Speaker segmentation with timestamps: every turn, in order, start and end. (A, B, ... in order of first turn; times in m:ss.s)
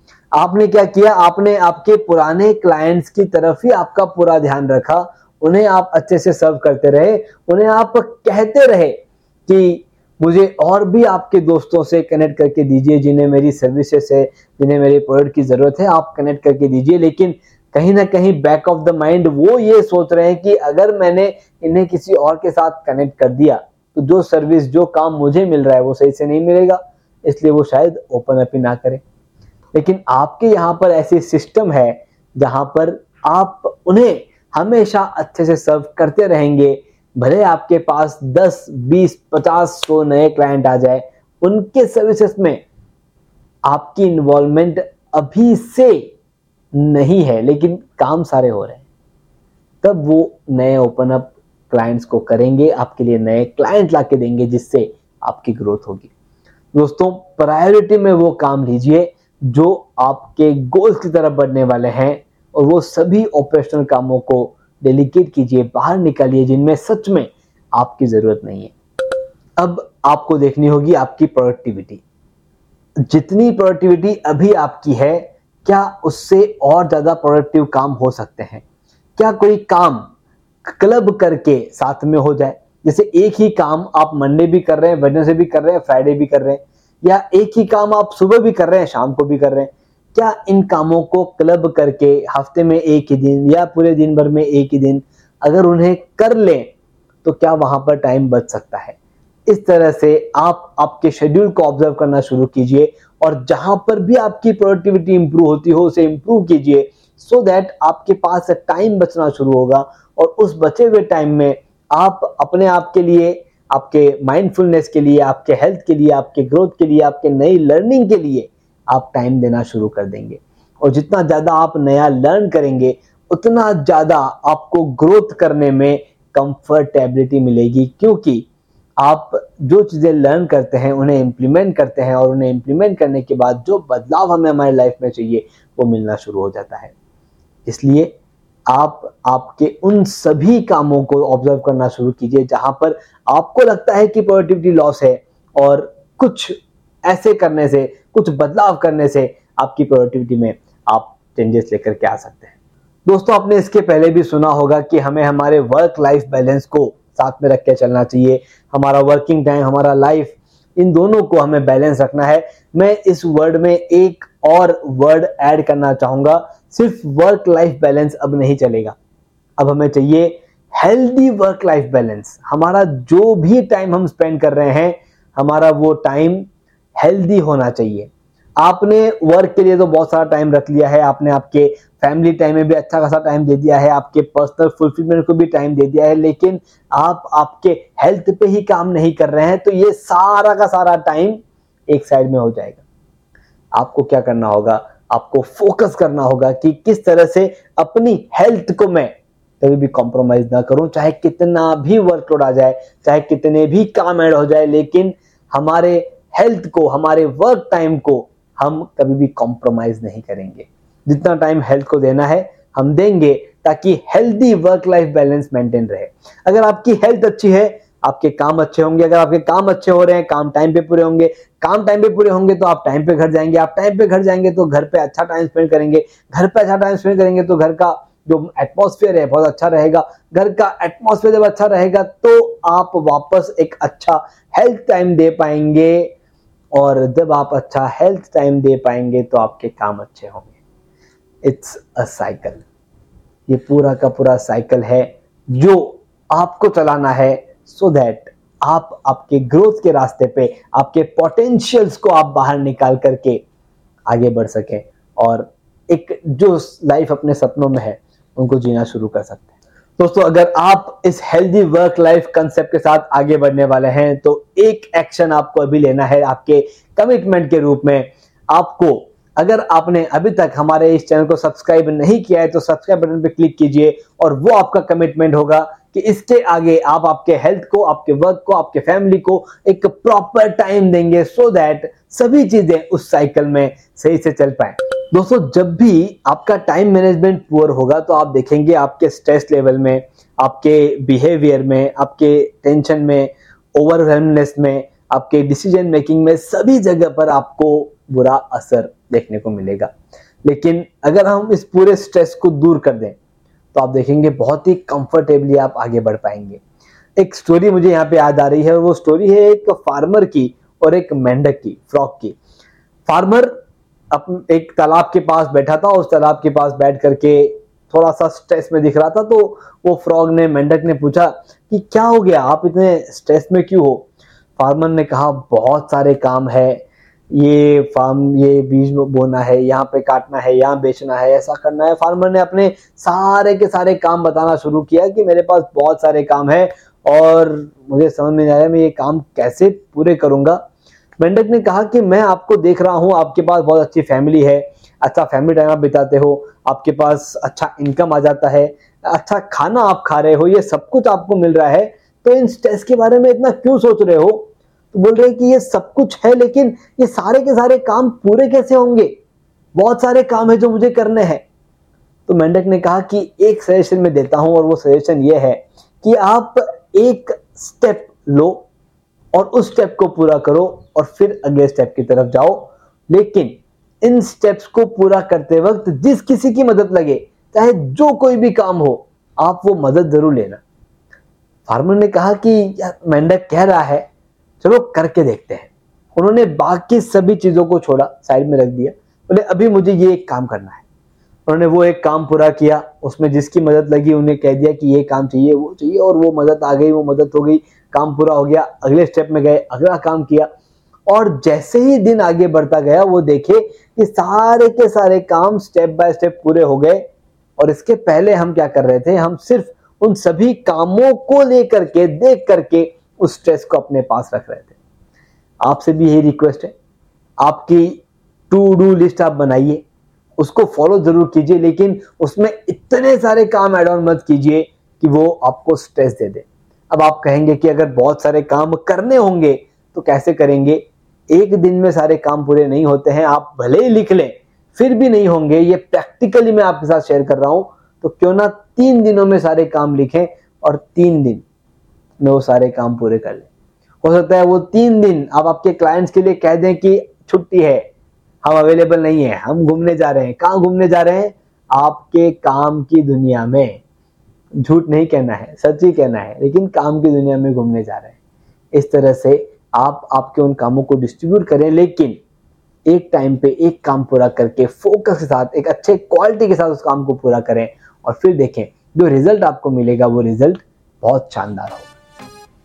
0:00.3-0:29.0 A
0:29.7-0:42.6 A
0:43.7-0:46.1 A
0:46.8-0:48.8 A
0:49.8-0:56.1 A
0:56.7-1:08.7 A
1:09.6-1:12.0 A
1:13.1-1:18.6 A
1:19.2-1:20.1 A
1:20.7-1:36.7 A
1:37.2-2:08.5 A
2:09.0-2:16.9 A
2:17.7-2:18.1 A
2:18.7-2:32.5 A
2:33.1-2:49.0 A
2:49.6-3:12.8 A
3:13.8-3:56.1 A
3:56.7-4:00.5 A
4:01.4-4:02.6 A
4:03.5-4:13.4 A
4:14.1-4:19.5 A
4:20.0-4:59.9 A
5:00.4-5:03.2 A
5:03.7-5:06.6 A
5:07.2-5:12.4 A
5:13.1-5:13.6 A
5:14.1-5:40.6 A
5:41.2-5:59.1 A
5:59.8-6:01.4 A
6:02.3-6:08.7 A
6:09.3-6:20.6 A
6:21.7-6:24.0 A
6:24.6-6:30.8 A
6:31.5-6:40.5 A
6:41.1-6:47.0 A
6:47.6-6:54.7 A
6:55.6-6:56.7 A
6:57.4-6:59.8 A
7:00.4-7:21.4 A
7:22.2-7:23.5 A
7:24.0-7:27.8 A
7:28.4-7:33.8 A
7:34.6-7:38.1 A
7:38.7-7:42.2 A
7:42.9-7:51.9 A